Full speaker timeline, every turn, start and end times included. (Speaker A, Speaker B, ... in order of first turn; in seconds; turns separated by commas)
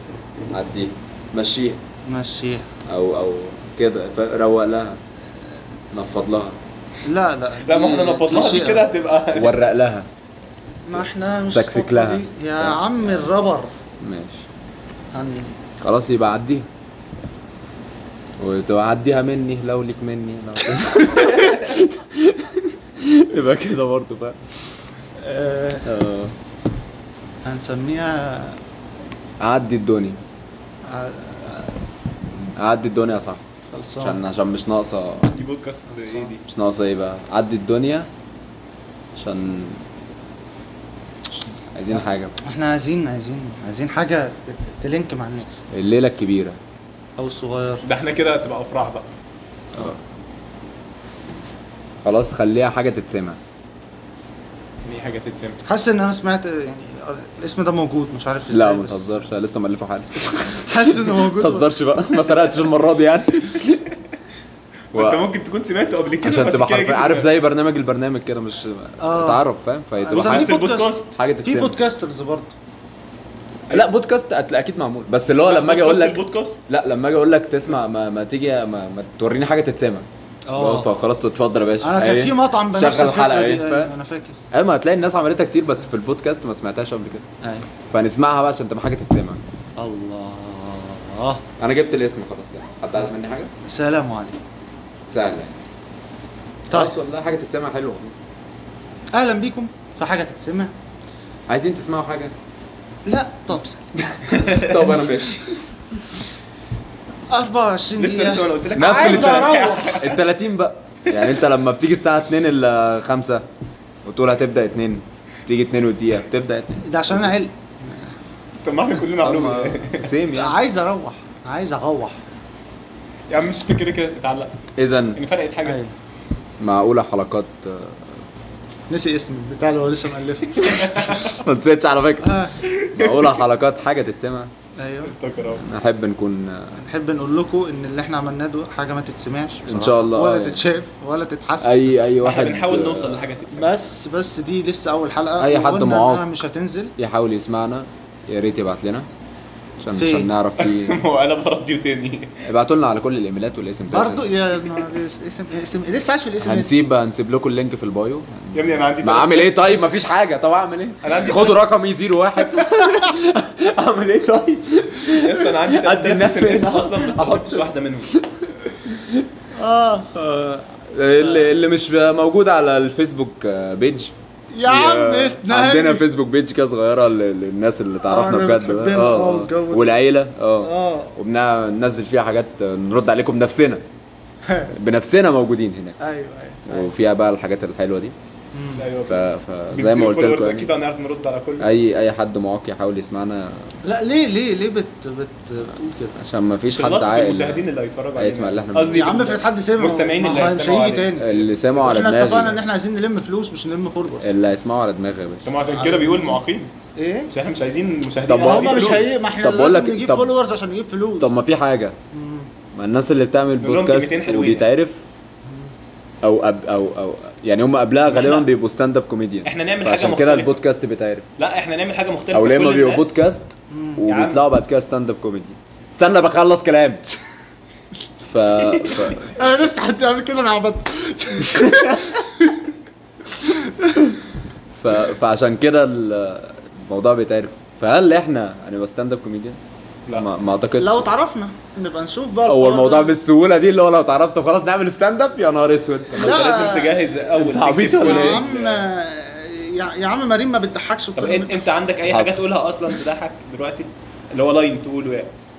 Speaker A: 0.5-1.8, Speaker B: 2.0-2.7, Speaker A: 2.9-5.0, Speaker A: 5.9-6.6, Speaker B: 7.0-8.9, Speaker C: 7.6-9.6, Speaker A: 9.3-10.1, Speaker B: 10.8-13.7, Speaker A: 11.5-12.8, Speaker A: 14.0-14.4, Speaker B: 15.1-15.6, Speaker A: 15.8-16.7, Speaker A: 18.4-24.4, Speaker B: 25.2-25.9, Speaker A: 25.8-26.3, Speaker B: 27.4-28.6, Speaker A: 29.4-30.2, Speaker B: 30.9-31.8, Speaker A: 32.5-33.4, Speaker B: 33.7-34.2, Speaker A: 34.0-35.4, Speaker C: 35.3-36.4, Speaker B: 35.9-36.3, Speaker A: 36.5-38.1, Speaker A: 39.2-39.8, Speaker A: 41.7-42.3, Speaker B: 42.4-45.6, Speaker A: 45.7-46.6, Speaker B: 47.2-47.8, Speaker C: 47.8-49.0, Speaker A: 52.0-53.4, Speaker C: 54.8-55.6, Speaker B: 55.6-59.0, Speaker A: 58.5-63.9, Speaker B: 60.6-61.7, Speaker C: 64.9-67.3, Speaker A: 64.9-65.2, Speaker A: 66.2-70.6, Speaker B: 69.0-69.4, Speaker B: 70.0-72.5, Speaker C: 70.1-71.1, Speaker A: 71.1-71.8, Speaker A: 73.7-83.9, Speaker C: 75.4-76.6, Speaker B: 80.5-80.9, Speaker B: 81.8-84.4, Speaker A: 84.5-87.2, Speaker A: 87.9-89.4, Speaker B: 89.8-91.4, Speaker A: 91.6-93.5, Speaker B: 93.6-94.4, Speaker A: 95.1-95.5, Speaker A: 96.7-98.1, Speaker B: 99.1-100.7, Speaker A: 101.5-102.3, Speaker B: 103.0-103.8, Speaker A: 104.1-105.6, Speaker B: 107.3-110.0, Speaker C: 108.0-110.2, Speaker A: 108.7-113.4, Speaker A: 114.0-117.3, Speaker B: 116.8-118.1, Speaker C: 118.6-120.1, Speaker A: 119.2-120.5, Speaker B: 120.3-122.2, Speaker C: 123.3-124.5, Speaker A: 124.8-125.2, Speaker C: 125.2-125.8, Speaker B: 125.6-125.9, Speaker A: 126.6-128.1, Speaker B: 128.9-131.0, Speaker C: 130.6-131.4, Speaker A: 130.8-134.5, Speaker B: 132.2-132.6, Speaker C: 132.6-133.4, Speaker B: 134.8-135.1, Speaker C: 135.0-135.6, Speaker A: 135.6-136.8, Speaker B: 136.8-142.1, Speaker A: 139.7-140.6, Speaker A: 141.6-143.2, Speaker C: 142.2-143.7, Speaker B: 143.5-146.9, Speaker A: 145.4-146.2, Speaker A: 147.0-149.1, Speaker A: 149.8-151.0, Speaker B: 149.9-150.3, Speaker C: 150.6-152.4, Speaker A: 152.4-154.3, Speaker B: 153.9-156.7, Speaker A: 156.4-169.2, Speaker C: 158.5-159.7, Speaker C: 161.0-161.6, Speaker C: 165.1-168.1, Speaker B: 169.5-170.1, Speaker A: 170.1-174.1, Speaker B: 174.5-176.1, Speaker A: 174.7-183.8, Speaker B: 178.0-180.0, Speaker B: 180.6-181.1, Speaker B: 184.4-184.7, Speaker A: 184.7-186.0, Speaker B: 186.0-186.9, Speaker A: 186.7-188.1, Speaker B: 188.5-188.9, Speaker C: 188.8-191.7, Speaker A: 189.1-190.7, Speaker A: 191.6-193.7, Speaker B: 193.8-196.2, Speaker A: 196.1-197.6, Speaker C: 196.7-201.6, Speaker A: 198.2-199.1, Speaker B: 198.9-201.3, Speaker A: 201.2-202.6, Speaker B: 201.8-204.2, Speaker A: 204.2-205.5, Speaker C: 205.4-206.7, Speaker B: 205.7-206.4, Speaker B: 206.9-207.3, Speaker C: 207.3-209.1, Speaker A: 208.3-210.3, Speaker B: 208.4-211.3, Speaker A: 211.2-211.9, Speaker B: 212.1-212.5, Speaker A: 212.7-215.0, Speaker C: 213.6-214.7, Speaker A: 216.2-221.2, Speaker C: 218.1-218.5, Speaker C: 219.4-220.6, Speaker C: 221.4-223.2, Speaker A: 222.3-227.0, Speaker B: 223.7-224.0, Speaker C: 224.1-224.5, Speaker A: 228.3-229.4, Speaker B: 229.3-232.7, Speaker A: 231.5-232.1, Speaker B: 233.4-234.1, Speaker A: 234.8-239.6, Speaker A: 240.1-241.1, Speaker B: 240.8-243.1, Speaker A: 242.5-246.4, Speaker B: 246.2-247.0, Speaker C: 246.2-248.8, Speaker A: 247.4-248.4, Speaker B: 248.0-251.6, Speaker C: 251.2-255.3, Speaker A: 252.1-252.4